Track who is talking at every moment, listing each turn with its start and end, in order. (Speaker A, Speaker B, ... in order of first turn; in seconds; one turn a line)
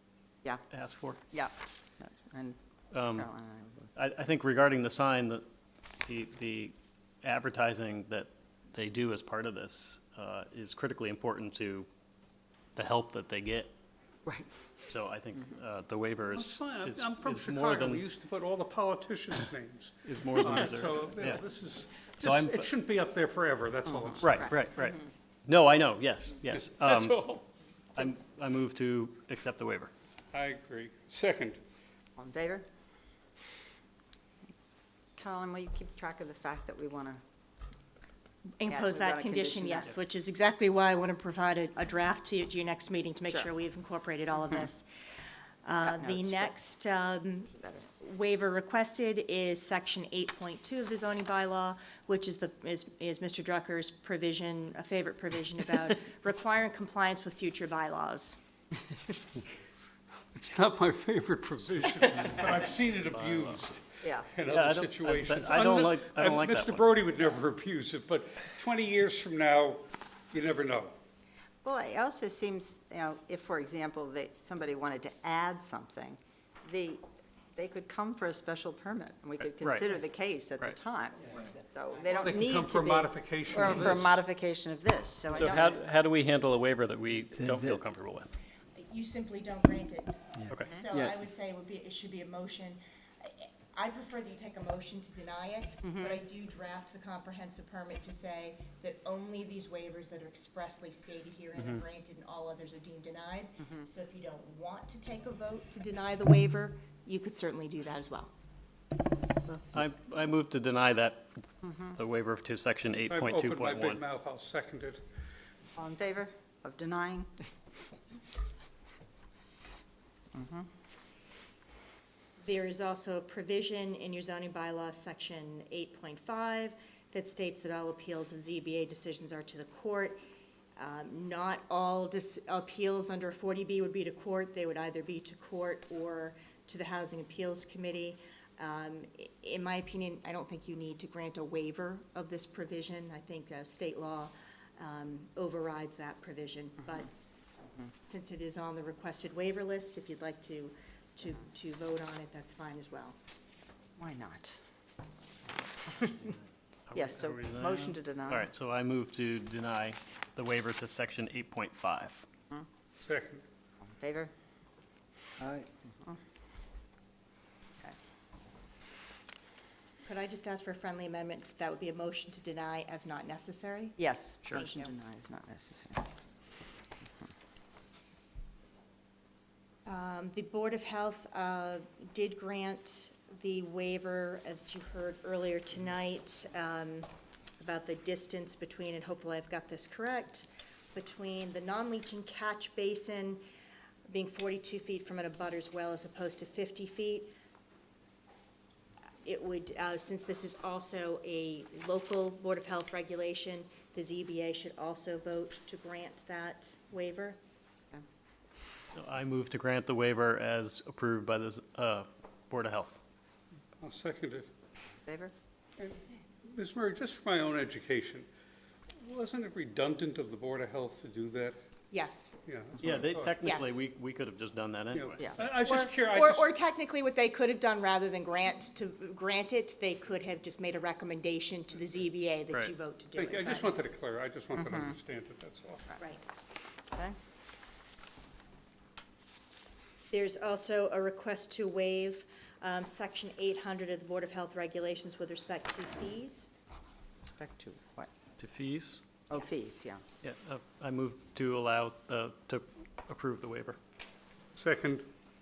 Speaker A: 0.7-1.2
Speaker B: 1.3-3.9
Speaker A: 2.9-3.3
Speaker A: 4.0-5.4
Speaker A: 6.0-11.9
Speaker A: 12.8-13.7
Speaker B: 14.2-14.5
Speaker A: 14.9-18.0
Speaker C: 16.3-24.4
Speaker A: 20.0-21.4
Speaker A: 22.2-22.7
Speaker B: 24.1-24.5
Speaker A: 24.2-27.2
Speaker C: 26.7-27.4
Speaker A: 27.9-29.9
Speaker C: 30.3-31.6
Speaker B: 32.1-32.6
Speaker B: 35.2-37.2
Speaker D: 38.6-44.9
Speaker B: 38.7-39.9
Speaker D: 45.6-58.4
Speaker B: 45.8-46.5
Speaker C: 60.3-70.9
Speaker A: 62.0-63.6
Speaker B: 64.0-64.3
Speaker A: 64.5-66.9
Speaker B: 71.6-77.0
Speaker B: 77.5-85.8
Speaker A: 79.4-79.9
Speaker C: 82.1-84.2
Speaker A: 85.3-88.3
Speaker D: 88.7-108.3
Speaker B: 95.8-96.1
Speaker A: 109.5-114.0
Speaker B: 111.6-112.0
Speaker C: 113.0-115.0
Speaker B: 115.8-117.3
Speaker B: 120.3-120.7
Speaker D: 122.4-130.2
Speaker D: 130.8-147.1
Speaker D: 148.0-153.2
Speaker B: 154.0-154.6
Speaker B: 155.9-156.2
Speaker A: 156.2-162.2
Speaker B: 156.9-158.5
Speaker C: 163.0-163.4
Speaker B: 163.8-164.3
Speaker D: 170.0-174.0
Speaker B: 174.0-176.1
Speaker D: 174.5-174.9
Speaker D: 179.8-187.1
Speaker D: 187.6-193.4
Speaker D: 194.1-197.3
Speaker D: 199.2-207.4
Speaker A: 208.9-213.0
Speaker C: 213.8-214.5
Speaker B: 215.1-215.3
Speaker C: 215.8-218.3
Speaker C: 218.9-221.6
Speaker D: 221.9-222.3
Speaker C: 222.4-223.3
Speaker A: 222.8-225.2
Speaker D: 223.4-223.8
Speaker C: 224.9-226.5
Speaker D: 225.5-233.8
Speaker C: 233.1-235.9
Speaker B: 236.9-237.2
Speaker D: 240.1-246.5
Speaker B: 247.3-248.1
Speaker A: 248.4-249.0
Speaker B: 249.3-250.0
Speaker A: 250.2-253.8
Speaker C: 254.5-255.1